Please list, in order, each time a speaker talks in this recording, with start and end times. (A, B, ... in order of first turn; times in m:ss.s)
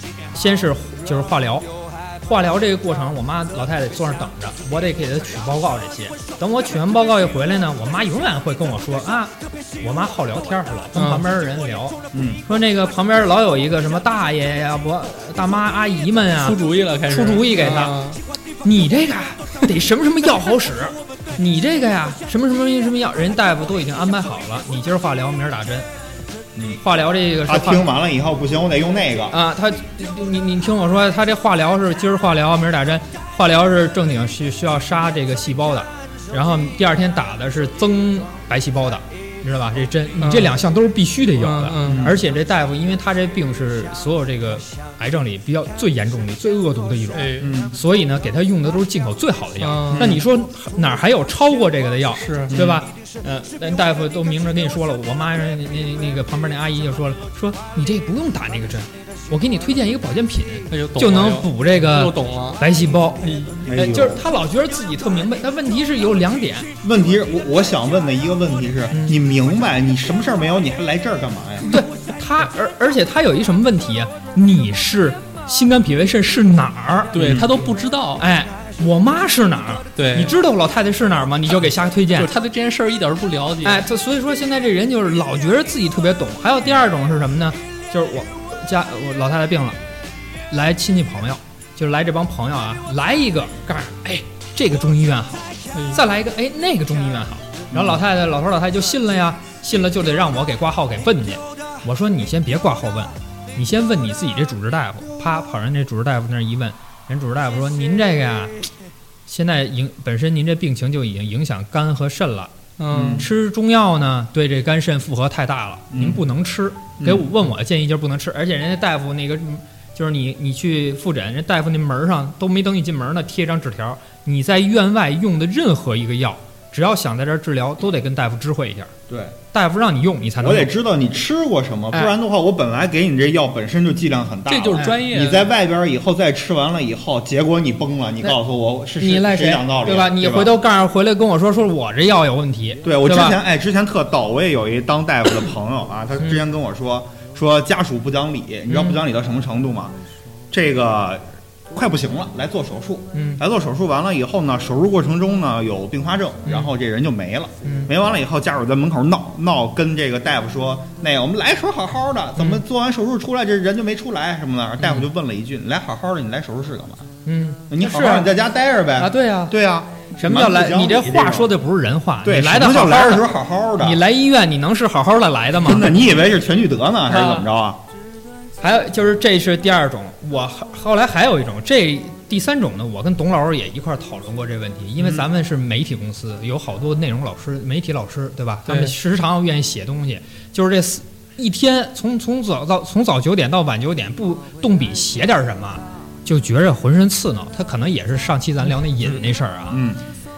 0:00.3-0:01.6 A
0:02.2-0:18.0 A
0:11.0-0:11.2 B
0:12.1-0:12.4 C
0:16.4-0:18.2 B
0:18.6-0:25.9 A
0:26.8-0:27.8 A
0:27.4-0:29.4 C
0:29.3-1:06.7 A
0:40.2-0:40.6 B
0:41.4-0:42.1 B
0:41.8-0:42.2 C
0:47.1-0:47.5 B
0:47.4-0:47.8 C
0:49.6-0:50.2 B
0:49.9-0:50.2 C
0:52.2-0:52.5 B
0:52.5-0:52.8 C
1:00.7-1:02.6 B
1:03.2-1:03.7 B
1:03.7-1:04.2 C
1:06.8-1:11.7 C
1:08.9-1:09.2 A
1:11.7-1:17.2 A
1:17.1-1:18.2 B
1:17.2-1:17.5 C
1:18.2-1:22.3 A
1:20.0-1:20.3 B
1:22.1-1:23.8 B
1:23.6-1:29.8 A
1:30.5-1:48.6 A
1:35.7-1:36.0 B
1:37.7-1:38.0 C
1:49.3-1:52.6 A
1:52.8-1:53.2 B
1:52.9-1:53.2 C
1:53.2-2:08.9 A
1:55.9-1:56.2 C
1:57.0-1:57.3 C
2:09.1-2:09.4 C
2:09.5-2:10.7 A
2:10.4-2:20.6 C
2:14.5-2:15.5 B
2:19.0-2:23.4 A
2:22.8-2:29.9 C
2:28.7-2:29.0 A
2:30.5-2:47.0 C
2:33.1-2:33.4 A
2:36.4-2:36.7 A
2:37.6-2:37.9 A
2:42.4-2:42.6 A
2:44.8-2:45.0 A
2:47.2-2:48.3 A
2:47.7-2:51.5 C
2:49.0-2:49.6 A
2:50.2-2:53.3 A
2:52.2-2:54.0 C
2:53.8-2:55.9 A
2:55.6-2:57.8 C
2:57.1-2:57.4 A
2:58.6-3:19.8 A
3:05.0-3:05.2 C
3:08.7-3:08.9 B
3:19.7-3:20.0 C